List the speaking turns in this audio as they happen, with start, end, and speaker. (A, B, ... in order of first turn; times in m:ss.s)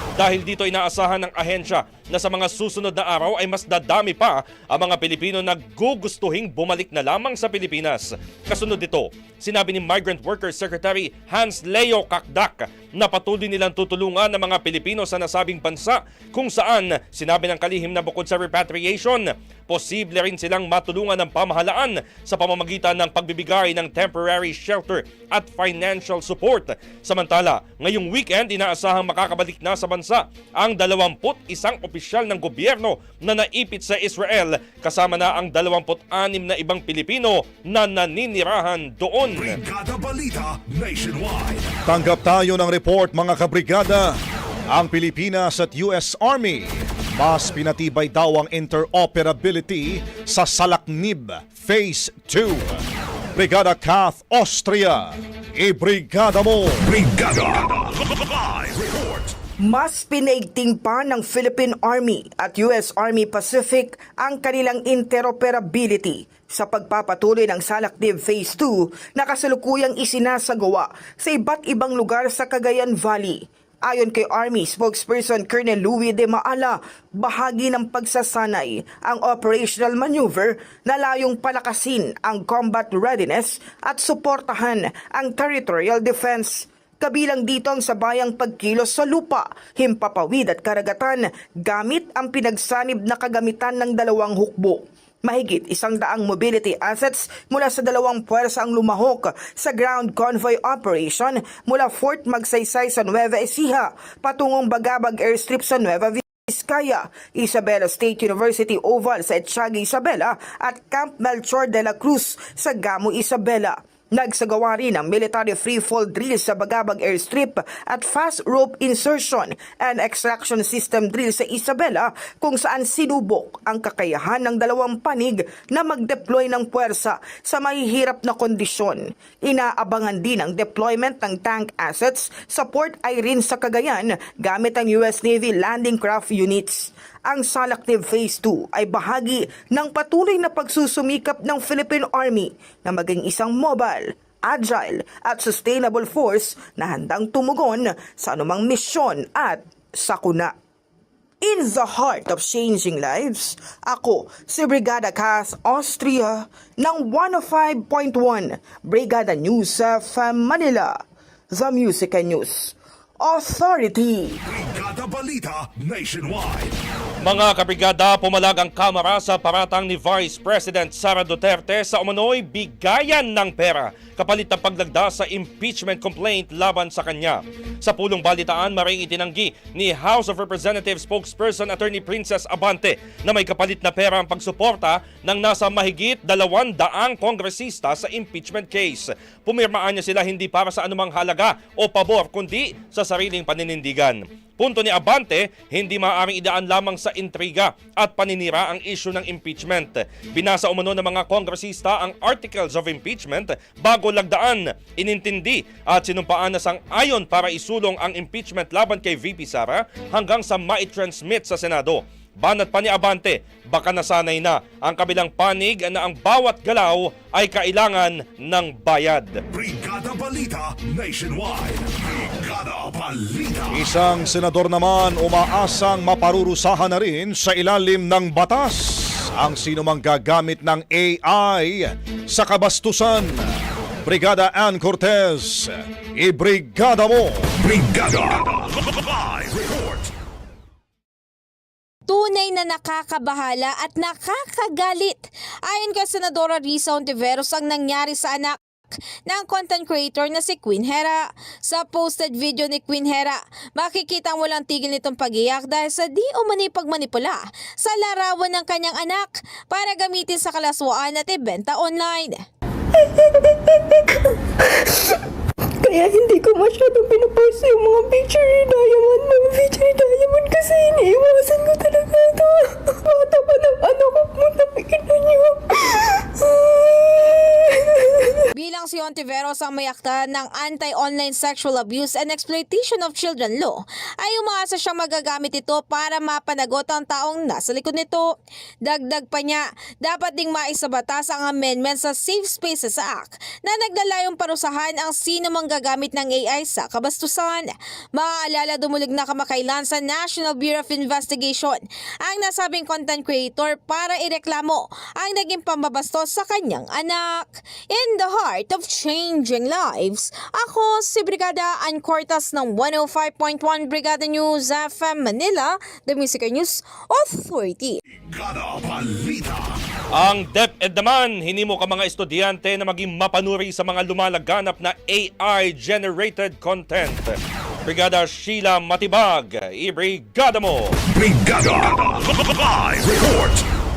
0:00.2-0:39.6 A
0:39.4-0:41.7 B
0:41.9-0:44.2 C
0:44.7-0:52.8 C
0:53.4-0:56.9 C
0:56.8-0:59.4 B
0:59.6-2:30.5 D
2:31.4-2:41.0 D
2:41.5-2:44.4 D
2:44.4-2:46.8 B
2:47.2-3:39.4 A
3:39.5-3:43.9 B
3:43.7-3:53.4 C
3:54.0-3:57.5 C
3:57.6-4:00.1 B
4:02.1-4:08.6 E
4:09.3-4:22.4 E
4:22.9-4:25.2 F
4:25.8-4:38.4 F
4:38.5-5:18.0 E
5:18.2-5:19.8 B
5:20.2-5:27.4 A
5:27.9-5:31.0 A
5:31.1-5:33.6 B